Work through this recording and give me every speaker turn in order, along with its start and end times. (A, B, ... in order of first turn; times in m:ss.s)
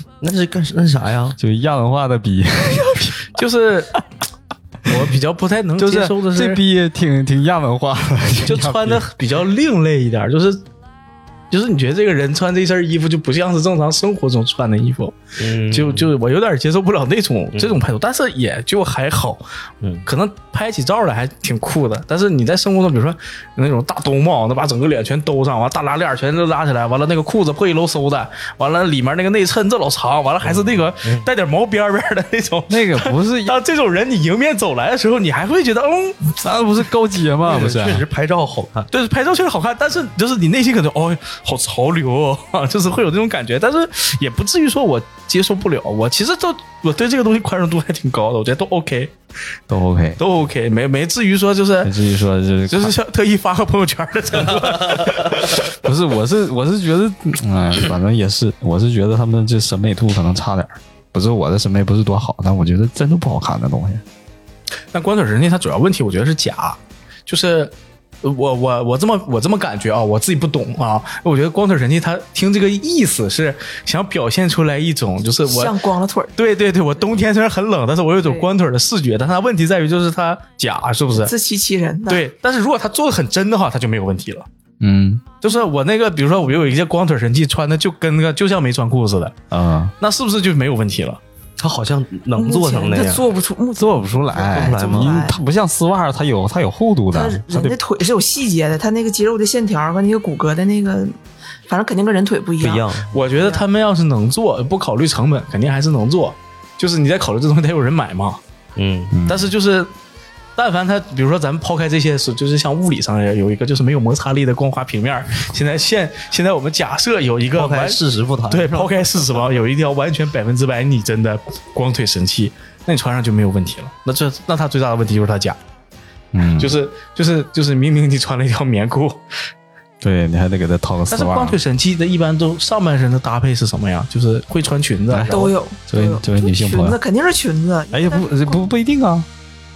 0:00.2-0:01.4 A
0:01.4-0:03.3 B
0:03.3-0:04.0 C
0:04.8-0:06.6 C
0:05.8-0:09.0 B
0:08.4-0:10.6 C
0:11.5-0:19.4 C
0:15.4-0:16.1 A
0:17.5-0:17.8 A
0:20.0-0:36.4 C
0:30.4-0:31.3 A
0:32.7-0:33.6 B
0:36.4-0:38.0 B
0:37.4-0:38.9 A
0:38.9-0:49.1 C
0:49.7-0:50.2 B
0:50.2-0:51.9 C
0:51.8-0:53.0 B
0:52.7-0:55.7 C
0:55.6-1:04.0 B
1:04.9-1:15.8 C
1:15.5-1:16.3 D
1:16.4-1:21.3 C
1:18.2-1:18.5 D
1:21.2-1:22.2 D
1:22.1-1:24.4 C
1:24.8-1:25.2 B
1:25.4-1:29.4 C
1:29.5-1:29.9 B
1:30.0-1:31.2 C
1:31.6-1:33.3 A
1:32.3-1:35.4 D
1:33.8-1:37.8 B
1:34.5-1:35.2 A
1:37.1-1:41.2 D
1:41.7-1:43.6 D
1:42.6-1:43.1 A
1:43.1-1:48.4 C
1:48.8-1:49.1 A
1:49.1-1:49.5 B
1:49.3-1:49.9 C
1:50.6-2:05.6 C
1:57.5-1:59.1 A
2:06.3-2:06.8 B
2:06.6-2:09.2 C
2:10.0-2:11.6 B
2:11.1-2:15.5 C
2:15.1-2:17.0 B
2:15.3-2:18.7 D
2:17.9-2:19.3 B